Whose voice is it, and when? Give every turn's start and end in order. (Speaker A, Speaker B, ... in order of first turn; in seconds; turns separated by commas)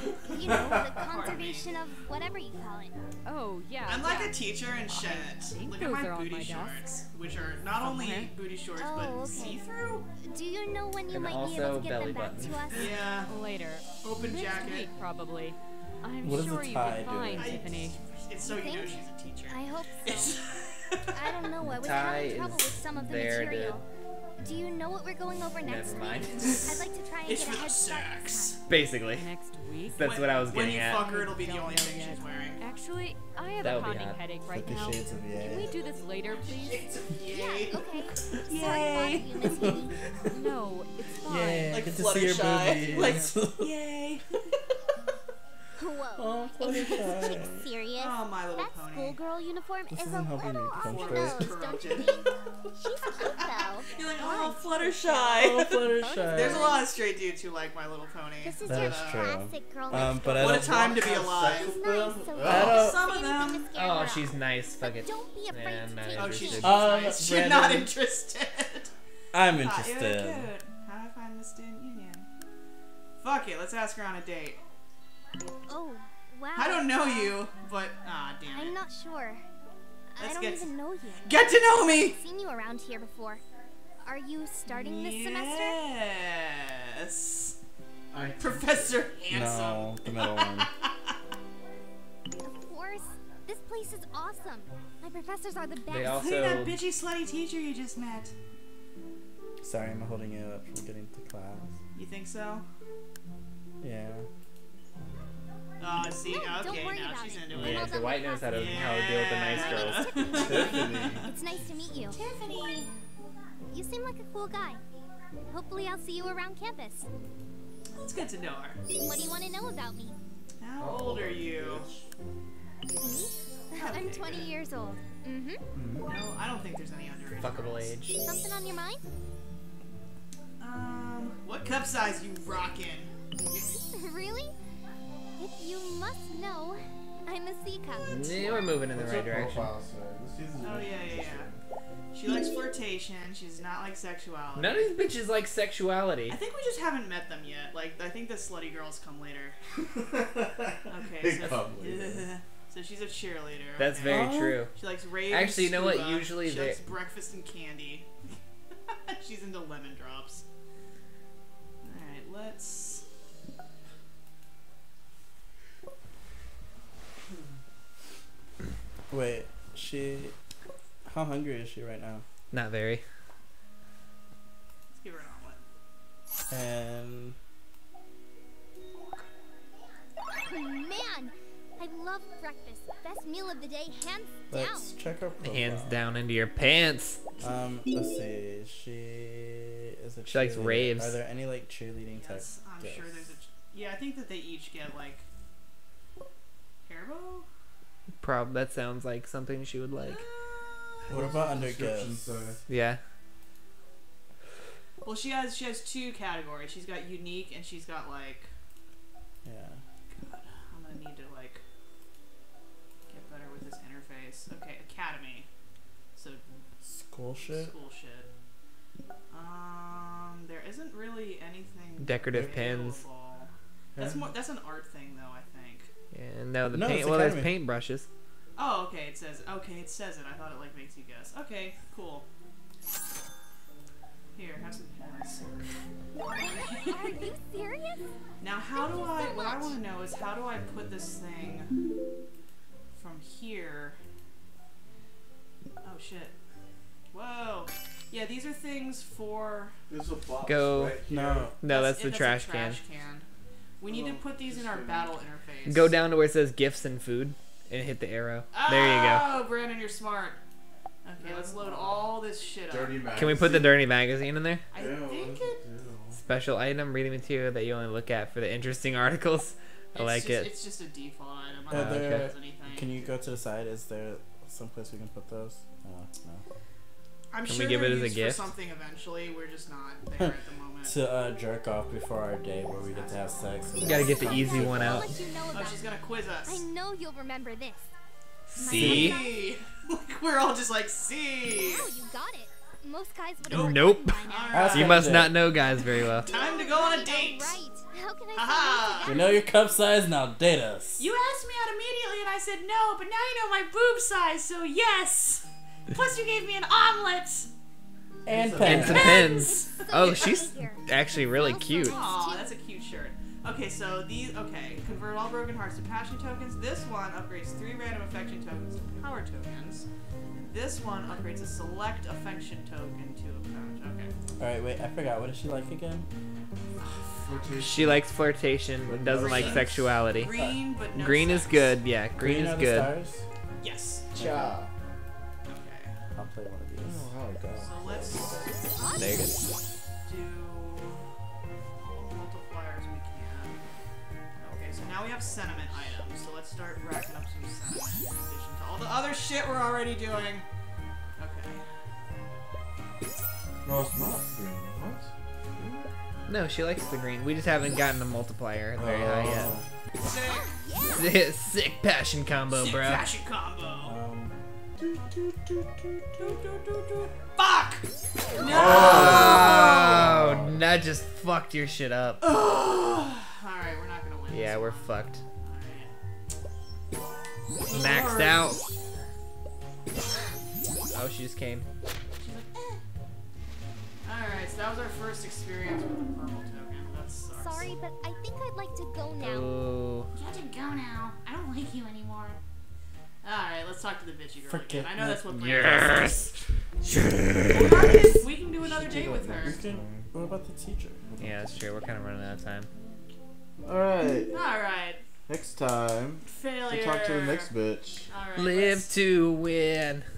Speaker A: 0.2-3.0, Speaker B: 0.3-1.8, Speaker C: 3.2-6.9, Speaker B: 3.8-10.1, Speaker C: 7.7-8.3, Speaker A: 8.7-9.6, Speaker A: 10.2-13.0, Speaker D: 11.1-12.6, Speaker B: 12.7-13.3, Speaker C: 13.2-18.0, Speaker B: 14.0-14.9, Speaker E: 16.2-17.6, Speaker B: 17.3-21.2, Speaker A: 18.4-20.3, Speaker A: 21.1-23.8, Speaker D: 21.6-23.8, Speaker A: 24.4-28.6, Speaker D: 25.6-26.7, Speaker B: 27.2-28.6, Speaker D: 28.7-29.3, Speaker C: 29.1-30.2, Speaker D: 29.8-31.1, Speaker B: 30.0-32.6, Speaker C: 30.9-36.9, Speaker D: 33.6-34.2, Speaker E: 34.5-35.7, Speaker B: 36.3-39.8, Speaker A: 37.2-40.0, Speaker C: 40.3-42.0, Speaker E: 41.3-43.8, Speaker B: 41.7-44.2, Speaker C: 42.9-43.3, Speaker A: 45.8-56.9, Speaker E: 46.1-47.7, Speaker B: 48.0-49.2, Speaker E: 49.9-51.7, Speaker B: 50.8-52.2, Speaker B: 53.2-59.2, Speaker E: 55.3-56.8, Speaker A: 58.4-60.7, Speaker D: 58.6-58.9, Speaker E: 58.6-61.2, Speaker B: 60.0-61.7, Speaker F: 60.7-63.0, Speaker A: 61.5-66.9, Speaker B: 62.4-63.7, Speaker D: 63.7-66.8, Speaker B: 66.2-68.9, Speaker E: 66.6-67.9, Speaker E: 69.3-70.5, Speaker B: 69.6-72.3, Speaker B: 73.2-74.6, Speaker A: 75.7-77.4, Speaker B: 76.5-78.8, Speaker A: 78.5-79.4, Speaker A: 80.1-83.4, Speaker B: 80.2-80.7, Speaker B: 81.2-82.2, Speaker A: 84.0-85.8, Speaker B: 84.7-87.5, Speaker F: 88.1-89.0, Speaker B: 88.4-91.1, Speaker E: 89.3-90.7, Speaker A: 92.4-96.2, Speaker D: 95.9-96.8, Speaker B: 96.1-98.3, Speaker E: 99.6-101.8, Speaker B: 101.9-102.6, Speaker E: 103.8-104.3, Speaker B: 105.8-111.3, Speaker A: 106.2-112.2, Speaker D: 107.5-110.3, Speaker F: 110.3-111.3, Speaker B: 112.1-112.9, Speaker A: 113.7-114.8, Speaker A: 115.5-117.1, Speaker B: 118.0-118.8, Speaker A: 118.9-120.2, Speaker B: 120.6-121.8, Speaker F: 120.8-122.0, Speaker A: 123.0-125.6, Speaker B: 123.8-124.5, Speaker F: 125.7-126.1, Speaker B: 126.0-127.9, Speaker D: 127.4-128.2, Speaker A: 128.2-129.0, Speaker B: 130.6-133.1, Speaker A: 133.6-134.5, Speaker A: 135.4-138.7, Speaker D: 138.0-139.7, Speaker F: 138.9-141.5, Speaker B: 140.6-141.5, Speaker B: 142.1-144.9, Speaker D: 144.6-146.4, Speaker B: 146.3-149.6, Speaker F: 149.9-152.3, Speaker B: 150.9-158.3, Speaker D: 153.8-154.7, Speaker E: 154.0-154.6, Speaker D: 155.3-156.8, Speaker B: 158.9-160.4, Speaker B: 161.8-163.0, Speaker E: 169.1-170.3, Speaker E: 171.1-172.2, Speaker D: 172.5-173.0, Speaker B: 174.9-175.6, Speaker E: 176.5-177.4, Speaker B: 178.9-179.2, Speaker A: 180.3-184.9, Speaker E: 184.5-186.0, Speaker D: 185.4-187.2, Speaker E: 187.4-193.3, Speaker D: 190.3-191.2, Speaker B: 192.1-195.2, Speaker B: 196.8-197.4, Speaker D: 198.2-200.2, Speaker B: 200.0-201.1, Speaker E: 201.1-202.4, Speaker F: 201.1-202.6, Speaker D: 202.7-203.0, Speaker B: 205.0-208.5, Speaker E: 209.4-209.8, Speaker B: 210.1-211.6, Speaker B: 213.1-215.5, Speaker B: 216.1-216.4, Speaker E: 216.8-217.7, Speaker B: 217.5-218.3, Speaker B: 219.3-225.9, Speaker D: 222.0-223.0, Speaker D: 226.1-228.1, Speaker E: 226.7-227.6, Speaker B: 228.6-232.2, Speaker B: 234.3-235.6, Speaker B: 236.3-237.3, Speaker A: 236.3-238.0, Speaker B: 238.4-241.7, Speaker A: 238.7-239.8, Speaker B: 242.9-244.0, Speaker B: 245.8-246.3, Speaker B: 247.1-249.7, Speaker F: 249.9-251.5, Speaker D: 250.4-250.9, Speaker E: 251.1-251.6, Speaker D: 251.6-252.8, Speaker B: 251.6-253.2, Speaker B: 253.8-255.9, Speaker F: 253.8-255.2, Speaker D: 255.7-259.3, Speaker B: 258.5-260.4, Speaker B: 261.0-263.0, Speaker F: 261.2-262.2, Speaker F: 262.7-263.8, Speaker D: 263.1-264.6, Speaker B: 264.7-265.6, Speaker F: 264.7-266.2, Speaker D: 266.1-270.5, Speaker B: 269.9-273.1, Speaker E: 271.7-276.4, Speaker D: 271.7-272.3, Speaker B: 277.3-281.0, Speaker D: 277.4-278.5, Speaker E: 280.8-285.1, Speaker B: 282.9-284.3, Speaker D: 283.8-285.1, Speaker A: 284.2-285.9, Speaker B: 285.5-286.6, Speaker A: 286.4-287.9, Speaker D: 288.5-289.2, Speaker A: 288.6-289.6, Speaker B: 288.6-291.9, Speaker A: 291.5-294.8, Speaker D: 293.5-294.2, Speaker B: 293.5-295.2, Speaker E: 294.5-295.4, Speaker D: 294.7-296.3, Speaker B: 296.2-297.6, Speaker A: 296.2-299.5, Speaker B: 298.3-299.2, Speaker E: 299.0-301.0, Speaker B: 301.0-307.5, Speaker E: 308.2-309.2, Speaker F: 308.3-309.0, Speaker B: 308.6-310.3, Speaker D: 308.6-312.0, Speaker A: 308.9-312.5, Speaker B: 311.8-319.9, Speaker B: 320.4-324.1, Speaker E: 324.4-326.1, Speaker B: 326.8-327.6, Speaker F: 327.2-328.1, Speaker D: 327.6-332.9, Speaker F: 328.8-329.9, Speaker B: 329.1-331.8, Speaker E: 332.1-333.2, Speaker B: 333.6-334.1, Speaker E: 334.2-334.5, Speaker F: 334.2-334.7, Speaker B: 335.4-336.0, Speaker E: 336.1-337.1, Speaker F: 336.8-338.7, Speaker B: 337.6-338.4, Speaker A: 338.7-339.3, Speaker D: 338.9-339.4, Speaker B: 340.1-341.1, Speaker B: 341.8-343.6, Speaker B: 344.4-350.4, Speaker B: 351.2-351.7, Speaker F: 353.6-355.9, Speaker D: 356.3-359.5, Speaker E: 358.8-359.6, Speaker B: 360.0-360.6, Speaker A: 360.1-361.1, Speaker D: 360.9-363.0, Speaker B: 362.5-363.9, Speaker E: 363.8-364.3, Speaker B: 366.2-370.0, Speaker F: 368.4-370.6, Speaker D: 368.5-372.2, Speaker B: 372.2-375.9, Speaker D: 374.3-375.2, Speaker B: 377.6-378.6, Speaker D: 377.7-378.6, Speaker D: 380.9-381.6, Speaker B: 382.2-382.8, Speaker B: 384.0-387.7, Speaker A: 387.3-389.5, Speaker D: 389.2-390.1, Speaker B: 390.1-392.4, Speaker B: 393.2-396.3, Speaker E: 394.5-395.4, Speaker D: 395.3-396.3, Speaker E: 397.4-397.9, Speaker B: 397.5-399.6, Speaker E: 398.6-401.1, Speaker F: 399.4-400.1, Speaker F: 401.1-401.6, Speaker D: 401.2-402.7, Speaker F: 403.6-404.3, Speaker B: 404.3-405.0, Speaker F: 405.3-408.1, Speaker B: 406.2-407.5, Speaker B: 408.1-408.9, Speaker D: 408.4-410.1